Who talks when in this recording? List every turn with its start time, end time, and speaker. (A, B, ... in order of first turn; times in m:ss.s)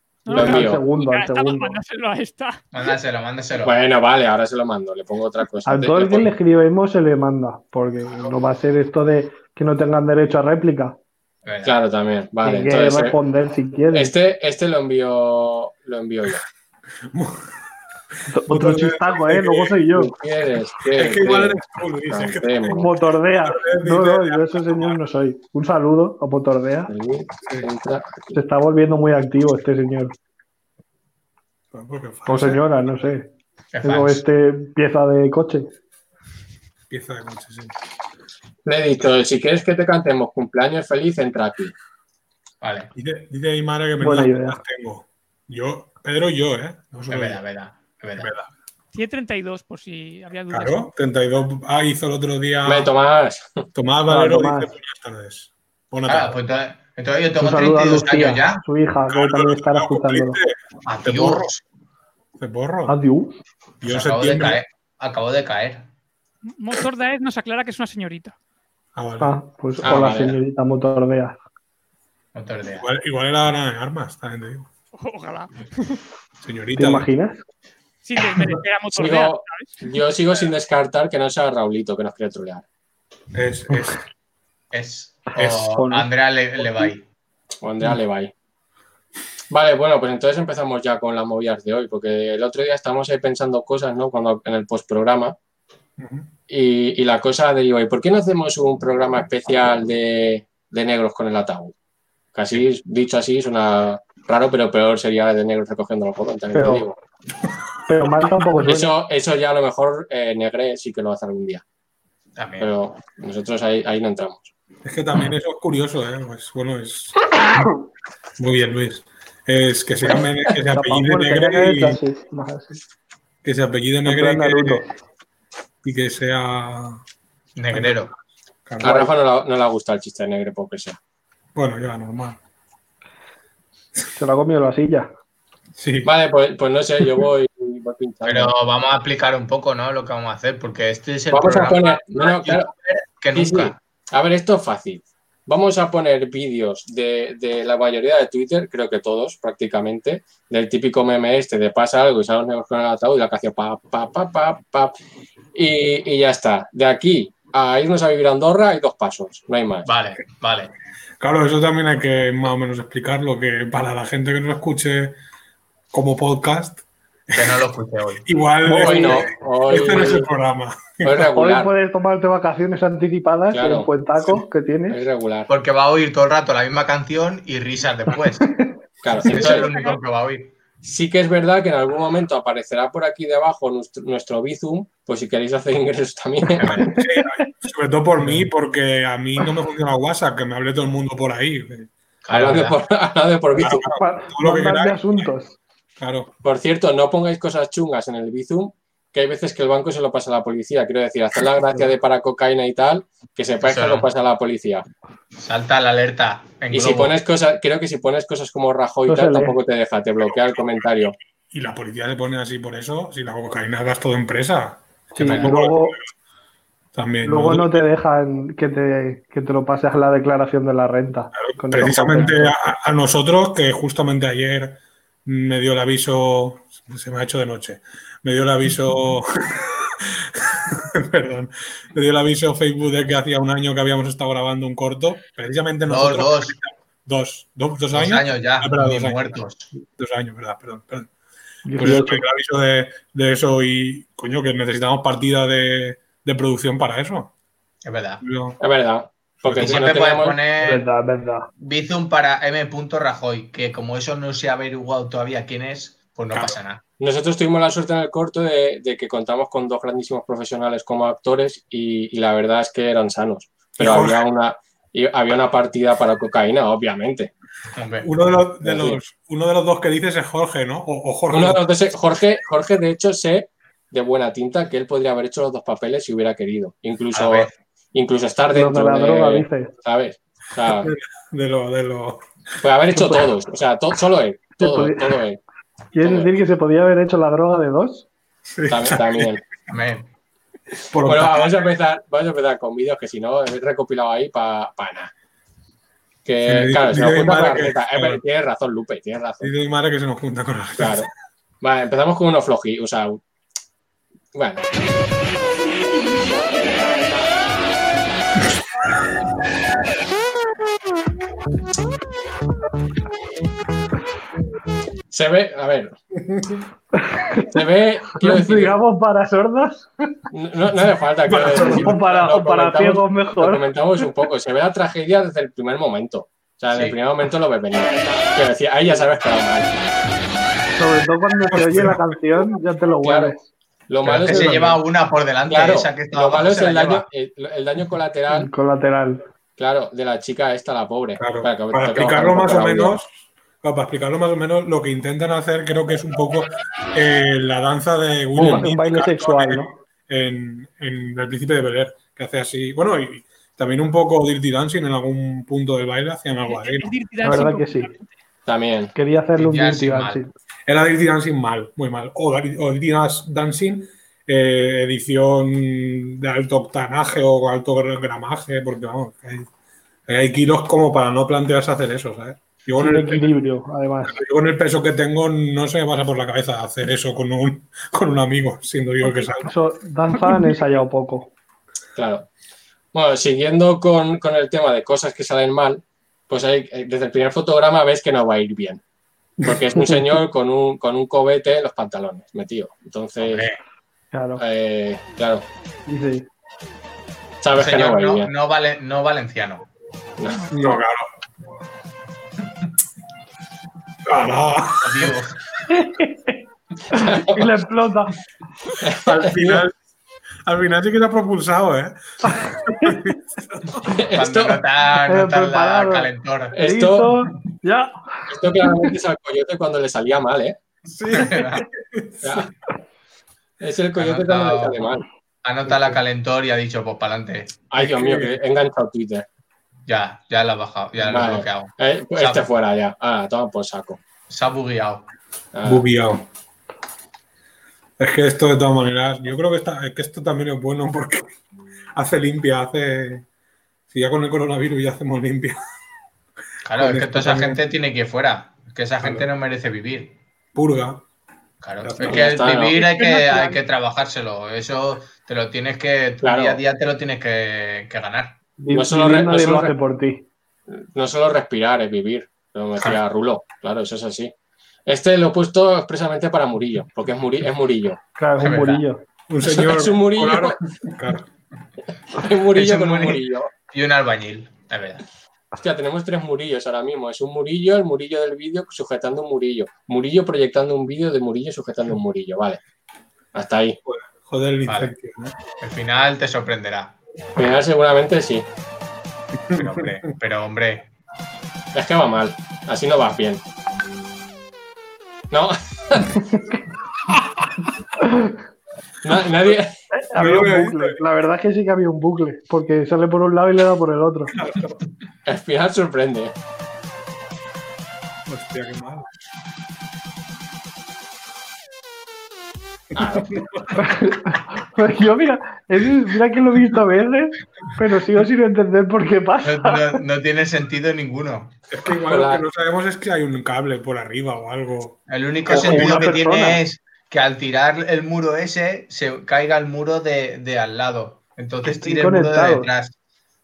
0:00.2-0:02.6 A
0:00.3-0:00.8 B
0:00.3-0:01.8 C
0:02.7-0:03.7 D
0:03.6-0:06.3 B
0:05.6-0:11.0 C
0:11.4-0:11.8 D
0:11.6-0:13.2 B
0:12.4-0:14.1 C
0:13.9-0:16.4 B
0:17.1-0:17.5 E
0:18.3-0:20.1 C
0:18.5-0:19.8 E
0:19.9-0:22.9 B
0:20.8-0:25.0 E
0:22.8-0:26.9 C
0:26.9-0:28.3 B
0:28.3-0:30.1 C
0:31.7-0:32.6 E
0:32.2-0:33.3 C
0:33.7-0:34.2 D
0:33.8-0:35.7 C
0:36.9-0:37.7 E
0:38.6-0:41.7 B
0:42.6-0:42.9 D
0:42.9-0:47.4 E
0:44.0-0:44.6 C
0:47.1-0:48.3 D
0:48.2-0:48.5 E
0:48.9-0:50.9 A
0:50.5-0:52.9 E
0:52.6-0:53.6 B
0:53.7-0:56.3 E
0:54.1-0:54.7 C
0:56.0-0:58.6 D
0:57.4-1:00.4 C
0:59.1-1:01.5 E
1:00.8-1:01.6 D
1:02.4-1:03.0 E
1:02.9-1:03.3 C
1:03.8-1:05.9 D
1:03.8-1:04.6 E
1:06.4-1:08.3 A
1:08.9-1:09.3 E
1:09.2-1:11.4 C
1:09.8-1:10.4 B
1:12.3-1:12.9 D
1:12.8-1:14.7 E
1:15.0-1:16.0 A
1:16.4-1:17.1 E
1:16.8-1:17.4 C
1:18.0-1:19.8 A
1:18.2-1:18.6 E
1:18.9-1:22.6 B
1:23.3-1:24.0 E
1:24.7-1:27.0 D
1:25.4-1:25.8 E
1:25.7-1:26.0 C
1:27.6-1:28.3 B
1:29.5-1:35.3 B
1:36.0-1:36.3 E
1:36.5-1:41.7 B
1:42.3-1:47.0 B
1:46.5-1:46.8 C
1:47.9-1:48.9 C
1:48.6-1:51.6 B
1:52.4-1:52.7 D
1:52.6-1:54.5 B
1:54.8-1:57.7 E
1:58.4-2:02.0 E
2:00.7-2:02.8 C
2:03.4-2:04.8 E
2:04.0-2:04.9 C
2:05.8-2:07.0 E
2:07.6-2:08.1 D
2:07.7-2:08.1 E
2:08.6-2:09.1 E
2:08.8-2:11.0 B
2:11.5-2:12.4 E
2:14.2-2:15.1 C
2:15.8-2:16.1 E
2:16.0-2:18.5 B
2:18.2-2:23.7 D
2:21.3-2:22.7 B
2:23.3-2:34.9 B
2:35.5-2:39.9 B
2:39.8-2:40.7 D
2:41.2-2:45.2 E
2:45.9-2:47.6 E
2:47.3-2:48.2 D
2:48.2-2:51.3 E
2:48.7-2:49.2 C
2:48.7-2:50.3 B
2:51.0-2:51.7 B
2:51.3-2:55.0 C
2:53.5-2:53.9 B
2:54.9-2:55.5 B
2:55.5-2:58.6 D
2:59.0-2:59.7 B
2:59.3-3:00.5 D
2:59.3-3:00.0 A
3:00.8-3:06.9 B
3:06.9-3:11.9 E
3:08.2-3:08.4 D
3:12.2-3:12.8 D
3:12.3-3:13.9 B
3:13.6-3:15.3 E
3:13.9-3:15.6 C
3:16.0-3:16.3 E
3:16.4-3:24.8 B
3:23.6-3:24.1 D
3:25.4-3:27.2 D
3:26.7-3:31.2 B
3:29.1-3:29.5 C
3:30.2-3:36.1 E
3:35.2-3:36.0 C
3:35.2-3:35.5 D
3:36.9-3:37.8 E
3:37.2-3:42.5 C
3:41.3-3:59.3 E
3:55.9-3:56.6 D
3:57.9-3:59.7 D
4:00.0-4:01.1 E
4:01.6-4:02.2 C
4:01.8-4:07.3 E
4:07.8-4:08.2 D
4:08.2-4:08.6 E
4:08.6-4:10.4 B
4:09.4-4:09.9 E
4:09.5-4:10.8 D
4:10.6-4:11.5 C
4:11.6-4:16.8 D
4:16.3-4:16.6 E
4:17.0-4:27.3 B
4:23.8-4:24.2 E
4:27.8-4:28.1 D
4:28.0-4:31.6 E
4:28.6-4:29.0 B
4:31.3-4:40.9 B
4:37.1-4:37.5 D
4:38.5-4:39.7 C
4:40.6-4:42.2 E
4:42.6-4:45.4 B
4:42.9-4:43.3 C
4:44.6-4:45.1 C
4:45.9-4:48.1 C
4:46.0-4:46.3 B
4:48.5-4:49.4 E
4:48.7-4:49.4 B
4:49.7-4:50.1 D
4:50.9-4:51.6 E
4:51.0-4:55.1 B
4:56.2-4:59.5 B
4:56.4-4:58.2 E
4:59.4-5:01.1 E
5:00.8-5:01.1 B
5:01.6-5:03.2 B
5:04.3-5:04.6 B
5:15.1-5:16.0 B
5:17.0-5:17.6 C
5:17.5-5:18.8 B
5:18.2-5:19.9 C
5:20.3-5:29.7 B
5:21.3-5:22.0 E
5:21.5-5:23.6 C
5:26.7-5:27.0 D
5:30.8-5:33.4 C
5:31.5-5:32.0 E
5:33.0-5:33.4 B
5:33.9-5:34.8 B
5:34.0-5:37.0 D
5:34.1-5:34.4 E
5:35.5-5:38.5 B
5:38.3-5:39.2 C
5:39.6-5:42.9 B
5:41.2-5:56.9 E
5:48.4-5:49.7 C
5:48.4-5:48.6 B
5:56.5-5:58.1 A
5:57.2-5:57.9 C
5:58.4-5:58.9 B
5:58.9-6:00.3 C
5:59.4-6:00.2 D
6:00.7-6:09.5 E
6:10.1-6:13.3 E
6:12.8-6:14.2 C
6:14.1-6:19.5 E
6:19.4-6:21.3 C
6:22.0-6:22.3 B
6:22.9-6:28.8 B
6:29.4-6:33.5 B
6:33.2-6:33.6 D
6:34.1-6:34.4 C
6:34.4-6:35.4 B
6:35.8-6:36.3 C
6:37.4-6:38.3 B
6:37.5-6:39.7 D
6:40.2-6:40.5 B
6:40.5-6:41.1 E
6:44.0-6:45.2 E
6:44.8-6:45.4 D
6:45.7-6:46.4 C
6:46.9-6:48.1 C
6:47.0-6:47.4 B
6:48.8-6:49.6 B
6:48.9-6:49.7 E
6:50.4-6:53.9 E
6:52.3-6:52.9 C
6:53.9-6:54.6 B
6:54.1-6:56.5 D
6:55.0-6:58.9 C
6:56.5-6:57.1 B
6:58.3-7:00.6 B
7:00.9-7:02.5 E
7:01.1-7:01.6 D
7:02.2-7:02.5 B
7:03.6-7:05.0 B
7:04.0-7:04.9 D
7:05.4-7:07.5 D
7:05.7-7:06.0 B
7:07.7-7:09.2 B
7:07.8-7:08.4 E
7:09.9-7:12.4 D
7:11.0-7:14.0 B
7:14.3-7:15.1 D
7:15.5-7:16.0 B
7:15.6-7:16.2 E
7:18.0-7:21.3 E
7:21.9-7:23.2 E
7:23.9-7:25.6 E
7:26.6-7:30.2 D
7:26.7-7:27.6 E
7:29.0-7:29.3 E
7:30.5-7:31.0 E
7:31.6-7:38.4 D
7:31.8-7:32.3 E
7:32.0-7:32.7 B
7:32.7-7:33.6 A
7:36.2-7:36.6 B
7:38.6-7:40.2 C
7:38.7-7:39.7 B
7:40.7-7:44.3 B
7:44.9-7:48.0 B
7:48.2-7:49.0 C
7:48.4-7:48.8 D
7:49.3-7:51.3 E
7:49.4-7:50.6 B
7:52.1-7:53.5 B
7:52.5-7:55.0 D
7:55.6-8:02.6 B
8:03.3-8:03.8 B
8:03.8-8:05.4 E
8:04.6-8:04.9 D
8:05.6-8:07.0 D
8:07.4-8:08.4 B
8:09.4-8:09.9 E
8:09.5-8:10.9 D
8:11.7-8:13.4 B
8:15.3-8:16.3 B
8:18.0-8:18.3 C
8:19.0-8:19.7 B
8:19.9-8:24.3 C
8:20.2-8:21.0 E
8:24.3-8:24.8 E
8:25.2-8:26.3 B
8:28.3-8:29.0 E
8:32.9-8:33.6 E
8:33.0-8:33.3 B
8:33.8-8:40.0 C
8:39.4-8:41.5 D
8:41.7-8:46.1 E
8:42.0-8:42.4 B
8:45.1-8:52.9 D
8:45.5-8:46.6 C
8:51.6-8:52.7 C